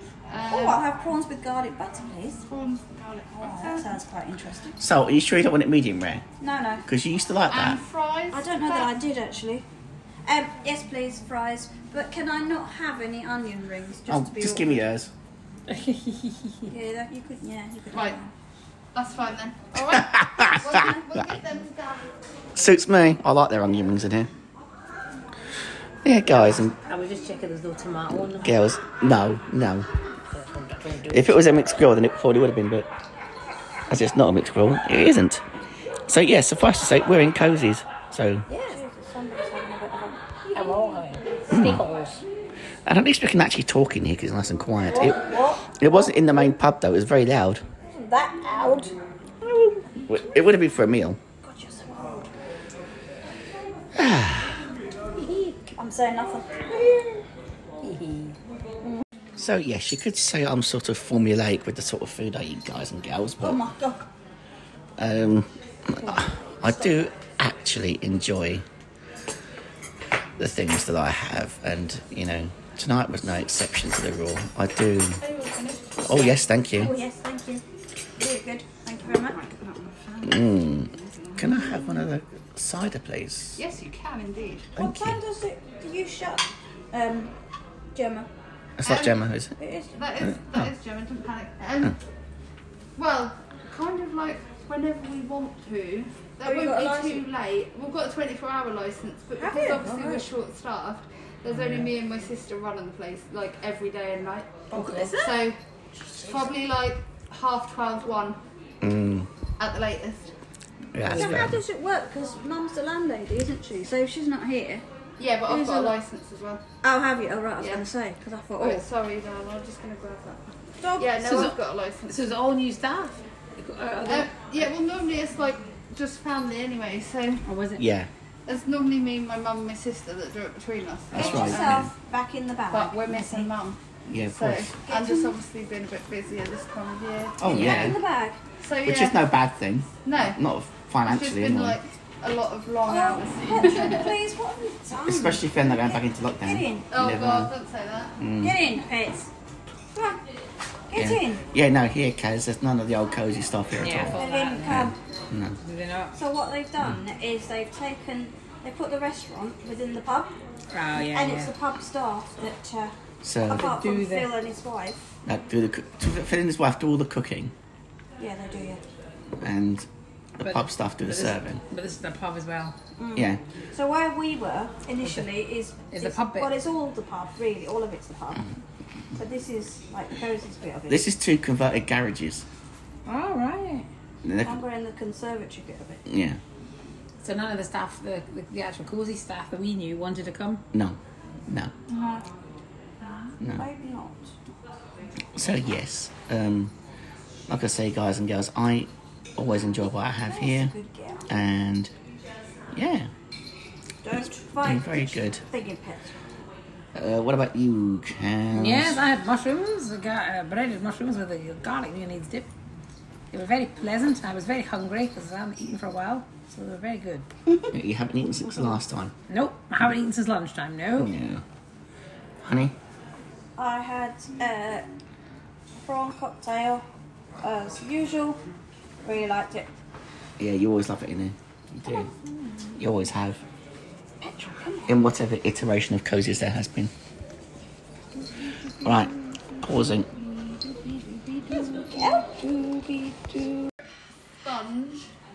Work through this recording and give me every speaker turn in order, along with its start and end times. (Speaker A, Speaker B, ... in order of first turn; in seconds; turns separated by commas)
Speaker A: 0.3-0.9, Speaker B: 0.5-2.5, Speaker A: 2.5-4.0, Speaker B: 3.4-4.8, Speaker C: 4.8-6.2, Speaker B: 6.4-6.9, Speaker C: 6.9-7.8, Speaker A: 7.5-8.9, Speaker B: 8.3-9.7, Speaker B: 10.2-14.7, Speaker C: 14.1-15.1, Speaker D: 15.7-16.7, Speaker B: 16.7-18.3, Speaker A: 17.9-18.2, Speaker A: 18.9-22.1, Speaker C: 19.8-20.7, Speaker B: 20.7-21.0, Speaker C: 22.6-24.3, Speaker C: 26.0-26.8, Speaker D: 26.3-28.6, Speaker C: 28.1-29.9, Speaker D: 30.3-31.4, Speaker C: 31.1-32.9, Speaker C: 33.9-35.4, Speaker C: 36.1-38.5, Speaker B: 38.5-40.8, Speaker D: 38.5-38.8, Speaker D: 40.5-42.2, Speaker C: 41.5-41.8, Speaker C: 42.9-47.6, Speaker D: 44.9-45.6, Speaker B: 48.0-48.9, Speaker C: 49.4-51.2, Speaker B: 51.4-52.3, Speaker C: 53.9-54.6, Speaker D: 55.1-55.8, Speaker B: 55.8-57.2, Speaker D: 57.8-58.4, Speaker C: 59.4-63.6, Speaker B: 63.4-64.1, Speaker C: 65.0-68.7, Speaker B: 66.0-66.9, Speaker C: 70.4-75.2, Speaker A: 75.2-76.3, Speaker C: 76.0-76.9, Speaker B: 76.7-77.6, Speaker B: 78.2-80.0, Speaker A: 80.1-81.7, Speaker C: 80.2-83.6, Speaker A: 83.6-84.7, Speaker C: 84.8-85.2, Speaker B: 84.8-87.3, Speaker B: 87.9-88.3, Speaker C: 88.8-89.5, Speaker A: 88.8-89.2, Speaker B: 89.6-90.0, Speaker A: 89.9-92.0, Speaker A: 93.0-104.5, Speaker B: 96.4-97.2, Speaker B: 99.4-99.8, Speaker D: 99.8-100.2, Speaker D: 101.5-101.9, Speaker D: 104.7-105.3, Speaker B: 104.9-105.3, Speaker A: 105.0-105.6, Speaker D: 106.1-106.5, Speaker A: 106.2-108.4, Speaker C: 108.8-109.3, Speaker A: 109.6-110.3, Speaker C: 110.9-111.6, Speaker D: 111.0-111.5, Speaker B: 111.1-114.8, Speaker A: 115.2-116.6, Speaker B: 115.5-116.0, Speaker B: 116.8-118.8, Speaker A: 117.6-117.9, Speaker A: 118.6-122.2, Speaker B: 120.8-121.5, Speaker D: 121.2-121.5, Speaker D: 122.1-124.7, Speaker A: 124.0-127.4, Speaker D: 127.4-127.8, Speaker C: 127.8-128.1, Speaker A: 128.5-131.9, Speaker C: 131.1-131.9, Speaker B: 131.1-133.5, Speaker A: 132.7-137.7, Speaker C: 134.1-134.7, Speaker B: 134.8-135.3, Speaker C: 137.4-138.0, Speaker B: 137.4-138.4, Speaker D: 137.6-137.9, Speaker A: 138.6-139.2, Speaker C: 138.8-141.8, Speaker A: 140.0-140.4, Speaker A: 141.0-144.2, Speaker B: 142.8-146.8, Speaker C: 145.0-147.5, Speaker A: 146.9-148.2, Speaker C: 148.2-148.6, Speaker B: 148.4-149.3, Speaker B: 149.9-150.2, Speaker B: 150.9-151.4, Speaker C: 150.9-155.6, Speaker D: 153.8-154.9, Speaker B: 154.1-154.9, Speaker D: 155.6-156.2, Speaker B: 156.1-160.3, Speaker D: 160.7-161.5, Speaker B: 161.1-162.9, Speaker C: 163.2-163.7, Speaker D: 163.4-164.4, Speaker B: 163.5-165.0, Speaker C: 165.3-167.5, Speaker B: 168.2-168.8, Speaker C: 169.4-169.8, Speaker C: 170.4-171.6, Speaker D: 170.4-172.8, Speaker B: 173.0-178.6, Speaker C: 173.2-173.4, Speaker D: 175.0-176.6, Speaker B: 179.2-181.0, Speaker C: 180.9-182.4, Speaker D: 183.1-183.8, Speaker C: 184.2-184.6, Speaker B: 184.4-186.0, Speaker C: 186.1-186.4, Speaker D: 187.2-190.6, Speaker C: 190.7-191.7, Speaker B: 191.9-192.2, Speaker B: 193.5-194.3, Speaker C: 195.3-196.7, Speaker C: 197.5-200.7, Speaker B: 200.2-201.3, Speaker C: 201.3-201.9, Speaker C: 202.7-203.1, Speaker B: 204.0-206.2, Speaker C: 204.6-205.4, Speaker C: 206.9-209.0, Speaker D: 208.5-212.5, Speaker D: 213.3-217.3, Speaker C: 217.7-219.1, Speaker D: 219.3-221.1, Speaker C: 220.9-221.4, Speaker C: 222.4-222.8, Speaker B: 223.6-224.8, Speaker B: 225.8-226.8, Speaker B: 227.4-228.4, Speaker B: 229.0-229.7, Speaker C: 230.4-232.1, Speaker B: 231.9-232.7, Speaker C: 232.8-233.4, Speaker B: 234.2-235.0, Speaker C: 234.9-236.9, Speaker C: 238.8-240.1, Speaker D: 241.4-243.4, Speaker B: 241.5-242.4, Speaker A: 244.4-245.1